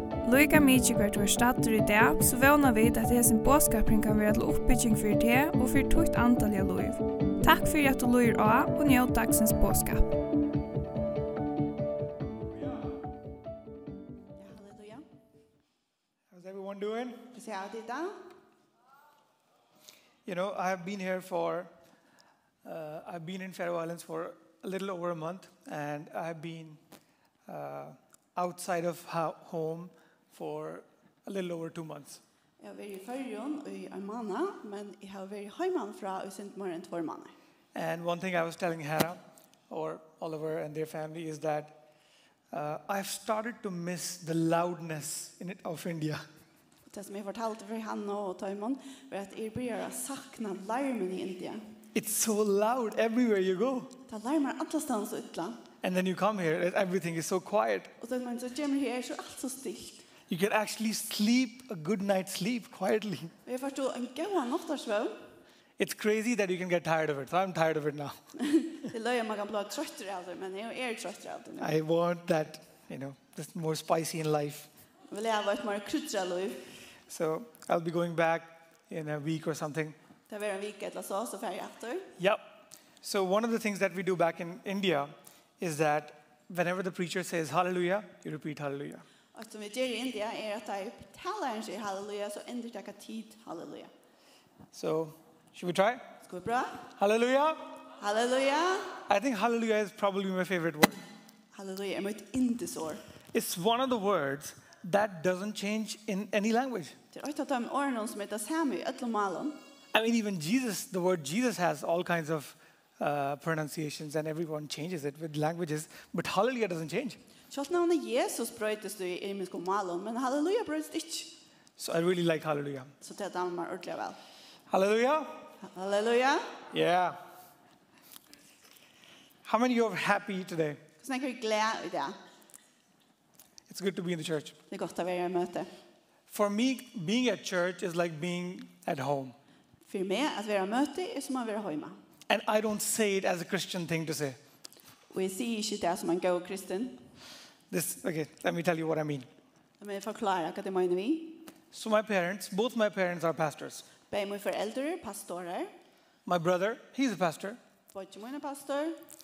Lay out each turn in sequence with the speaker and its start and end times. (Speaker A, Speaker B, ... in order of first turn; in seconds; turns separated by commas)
Speaker A: 0.2-10.2, Speaker B: 14.4-15.0, Speaker C: 16.3-17.3, Speaker B: 17.3-18.2, Speaker C: 20.2-21.7, Speaker C: 22.6-26.8, Speaker C: 27.4-32.2, Speaker B: 32.6-37.3, Speaker C: 37.7-41.8, Speaker C: 42.5-46.2, Speaker B: 46.9-51.6, Speaker C: 51.9-53.9, Speaker B: 54.0-55.6, Speaker C: 55.8-57.9, Speaker B: 58.0-60.0, Speaker C: 60.3-63.3, Speaker B: 63.5-65.2, Speaker C: 65.8-68.2, Speaker B: 68.4-71.7, Speaker C: 71.6-74.7, Speaker B: 75.1-76.6, Speaker C: 77.1-80.0, Speaker B: 80.3-82.1, Speaker C: 83.0-89.0, Speaker B: 89.3-93.9, Speaker C: 94.7-96.0, Speaker B: 96.2-96.8, Speaker C: 96.9-97.8, Speaker B: 98.0-99.0, Speaker C: 99.1-101.0, Speaker B: 101.5-103.0, Speaker C: 103.3-107.0, Speaker B: 107.1-109.6, Speaker C: 109.9-117.2, Speaker B: 117.5-121.3, Speaker C: 121.8-122.9, Speaker B: 123.0-124.2, Speaker C: 124.7-125.4, Speaker B: 125.6-126.6, Speaker C: 126.7-127.2, Speaker C: 129.4-130.8, Speaker B: 131.0-132.2, Speaker C: 133.7-134.6, Speaker B: 134.7-135.7, Speaker C: 136.3-139.3, Speaker B: 139.9-142.0, Speaker C: 142.3-144.4, Speaker B: 145.1-147.0, Speaker C: 147.7-149.3, Speaker B: 149.8-151.4, Speaker C: 151.7-153.9, Speaker B: 154.1-155.7, Speaker C: 156.2-157.6, Speaker B: 157.9-159.0